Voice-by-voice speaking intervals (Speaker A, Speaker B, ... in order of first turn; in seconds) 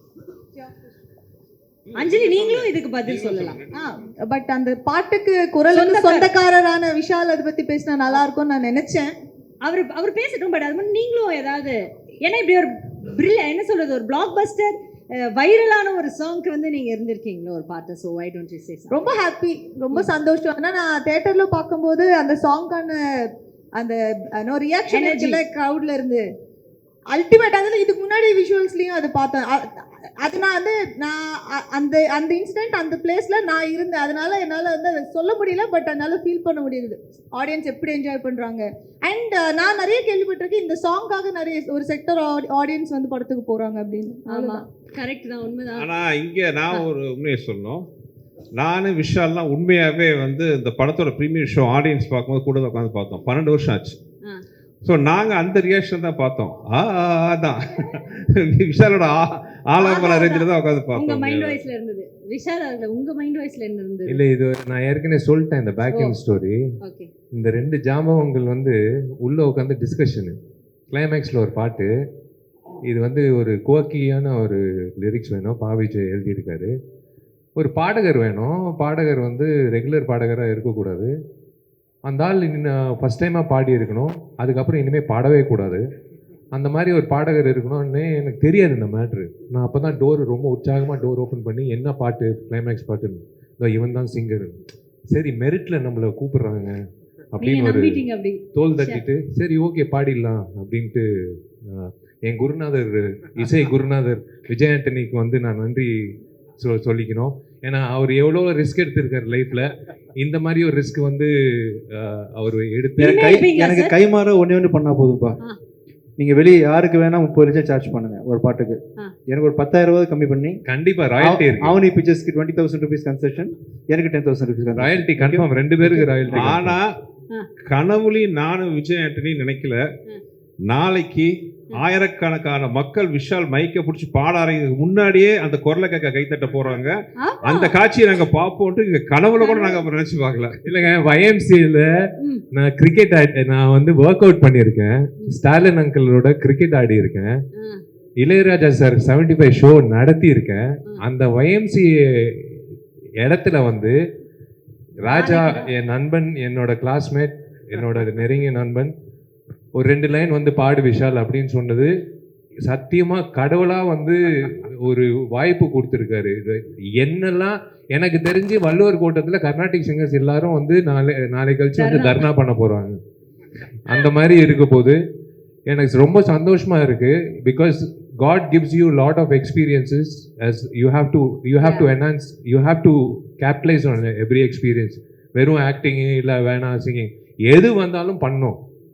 Speaker A: 1.9-3.9, 45.8-47.9, 48.5-54.0, 54.8-61.6, 126.3-126.9, 127.7-129.8, 130.7-140.6
Speaker B: 1.9-3.6, 5.7-6.3, 9.6-19.1, 24.9-25.4, 44.3-45.9, 59.8-60.4, 60.9-64.2, 65.9-66.2, 66.8-67.1, 97.4-99.0, 113.0-113.9, 137.2-137.8, 139.4-139.8, 147.6-147.8, 155.1-155.7, 171.8-172.2, 181.6-181.9
Speaker C: 3.7-9.1, 18.9-23.0, 23.8-26.2, 27.1-29.6, 30.2-44.6
Speaker D: 64.1-66.6, 67.3-70.3, 70.9-71.9, 72.9-76.7, 77.6-81.1, 82.0-85.8, 86.5-96.8, 97.3-105.9, 106.6-113.3, 120.7-121.8, 124.7-126.8, 140.6-141.9, 142.5-147.3, 148.2-152.7, 153.2-154.0, 155.0-158.9, 159.8-161.9, 162.7-173.0, 173.8-175.0, 175.7-188.6
Speaker E: 113.0-115.4, 116.2-120.6, 121.2-126.6